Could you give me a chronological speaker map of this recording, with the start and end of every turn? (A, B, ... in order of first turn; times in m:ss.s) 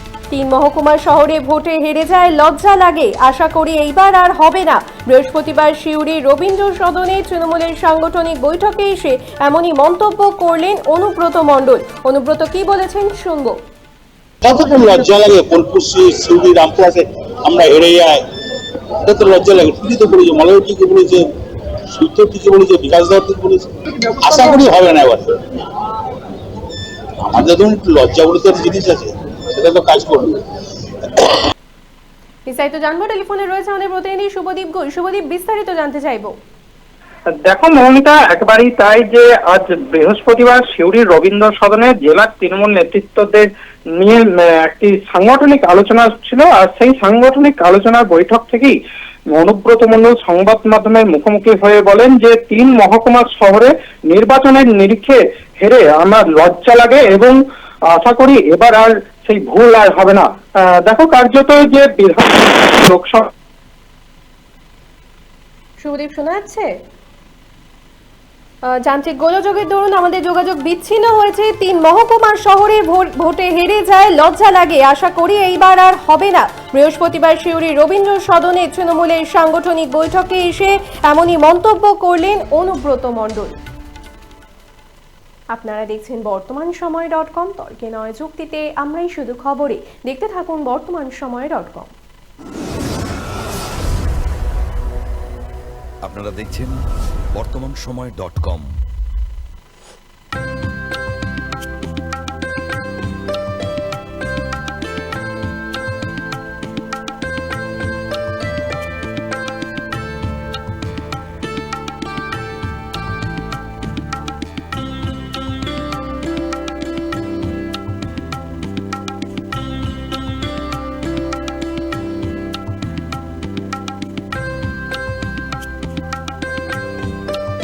0:00.3-0:13.6 A
0:14.4-0:18.2 B
0:19.0-0:21.2 B
0:21.9-0:25.3 B
0:27.2-0:30.4 B
0:32.5-0:36.3 A
0:37.3-0:43.5 C
0:44.0-0:48.8 C
0:49.4-0:57.4 C
0:57.9-1:03.3 C
1:05.8-1:06.7 A
1:08.7-1:23.6 A
1:25.5-1:31.9 A
1:36.0-1:36.8 D
1:37.4-1:38.7 D